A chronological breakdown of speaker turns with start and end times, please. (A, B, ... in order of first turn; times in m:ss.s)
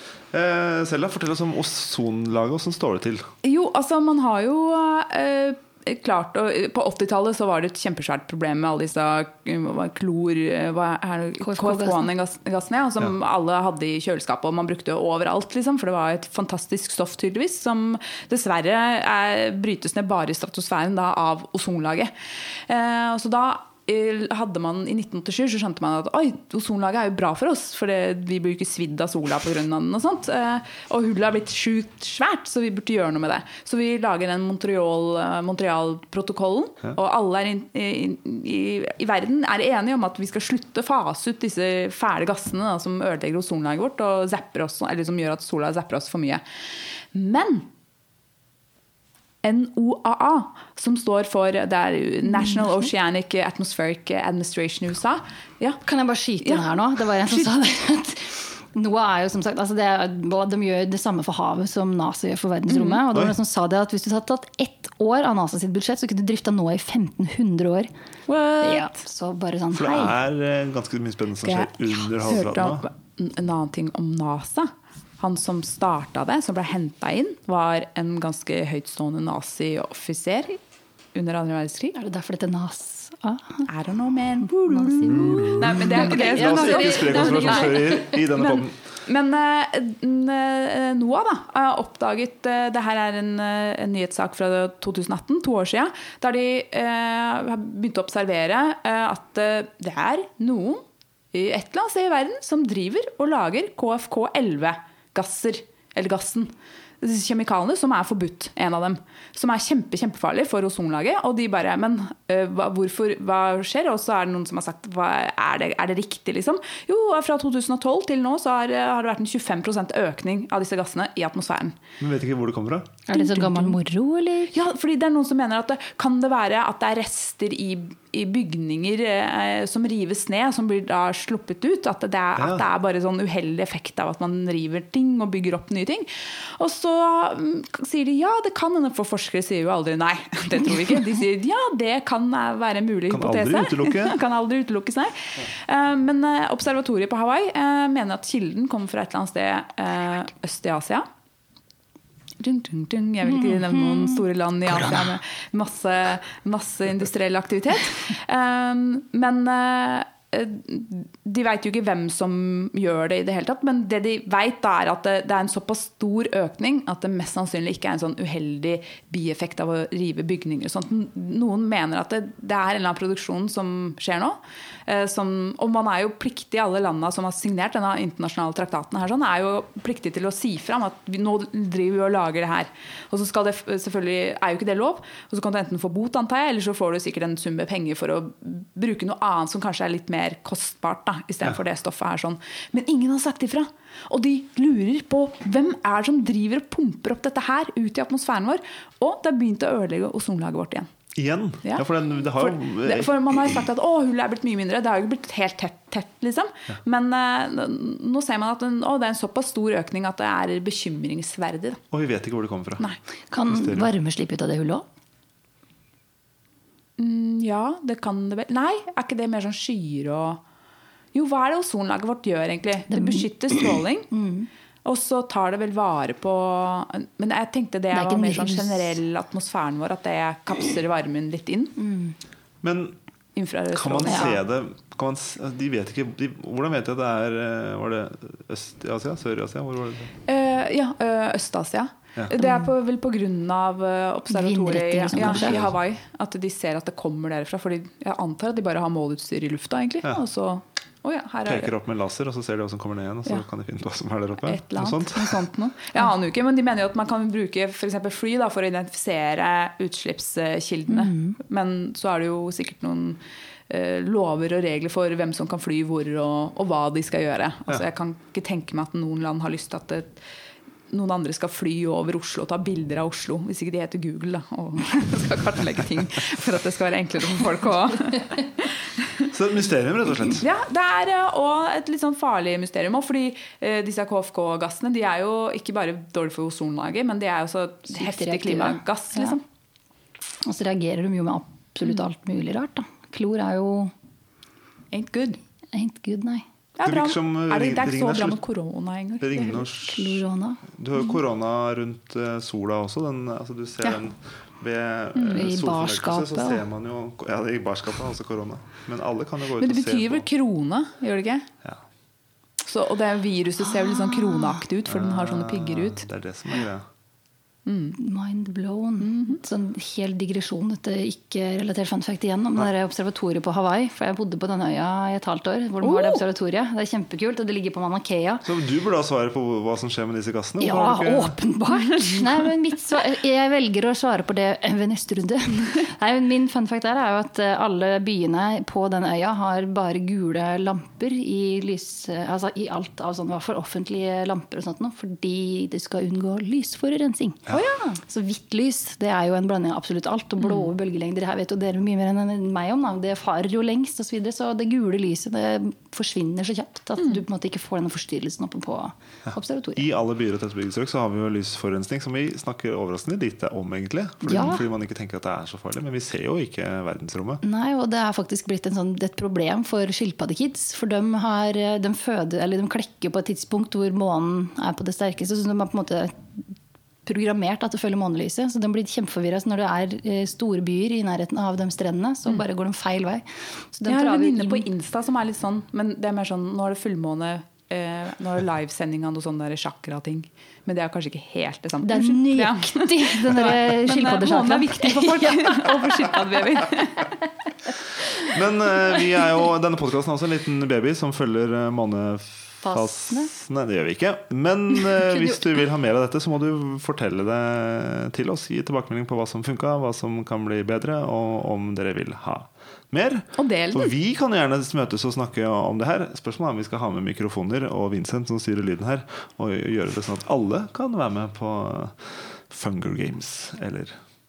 0:00.3-0:03.3 A
0:03.4-0:46.4 B
0:11.4-0:12.1 C
0:47.1-0:47.7 B
0:49.4-0:55.8 B
0:55.8-1:07.9 C
1:02.7-1:03.0 B
1:08.3-1:08.9 B
1:08.6-1:10.2 C
1:09.7-1:12.9 A
1:11.4-1:20.6 B
1:21.1-1:22.0 B
1:21.9-1:23.7 C
1:23.7-2:01.8 B
1:24.4-1:28.1 C
1:25.0-1:28.8 A
2:02.0-2:03.0 A
2:03.1-2:04.6 C
2:03.1-2:03.8 B
2:04.5-2:31.0 B
2:12.4-2:12.6 A
2:23.1-2:24.2 A
2:32.4-3:20.9 B
2:33.2-2:34.2 C
3:21.1-3:23.1 A
3:21.6-3:31.8 B
3:31.9-3:32.9 A
3:33.3-3:34.8 C
3:33.4-3:33.9 A
3:37.0-3:40.4 B
3:41.1-3:44.1 B
3:42.9-3:44.5 C
3:44.8-3:51.8 B
3:47.9-3:49.0 C
3:51.8-3:52.2 C
3:52.6-3:53.0 A
3:53.3-3:54.4 B
3:53.7-4:00.1 A
3:54.1-3:54.3 C
4:00.2-4:11.7 B
4:02.4-4:02.7 C
4:04.3-4:05.7 C
4:05.1-4:05.7 A
4:11.4-4:15.5 A
4:14.4-4:30.2 B
4:20.9-4:21.4 C
4:30.9-4:39.3 B
4:39.3-4:40.4 A
4:40.2-4:49.4 B
4:47.9-4:49.4 C
4:50.4-4:53.9 C
4:54.9-4:55.4 B
4:55.7-4:56.4 C
4:56.8-4:59.7 B
4:56.8-4:58.4 A
4:59.2-5:00.2 A
4:59.7-5:00.6 C
5:00.7-5:10.2 A
5:05.1-5:05.5 B
5:05.3-5:06.6 C
5:09.6-5:11.5 B
5:12.6-5:16.0 B
5:13.7-5:14.6 C
5:14.8-5:16.8 A
5:17.6-5:18.0 B
5:18.0-5:28.4 C
5:19.0-5:19.4 B
5:25.8-5:26.2 B
5:28.4-5:31.4 A
5:30.6-5:59.8 C
5:47.5-5:47.9 B
5:59.3-6:07.4 A
6:04.2-6:04.6 C
6:07.4-6:16.4 C
6:17.0-6:24.7 C
6:23.8-6:37.1 B
6:31.8-6:36.2 C
6:38.1-7:04.0 A
6:42.6-6:43.3 C
6:53.4-6:53.9 B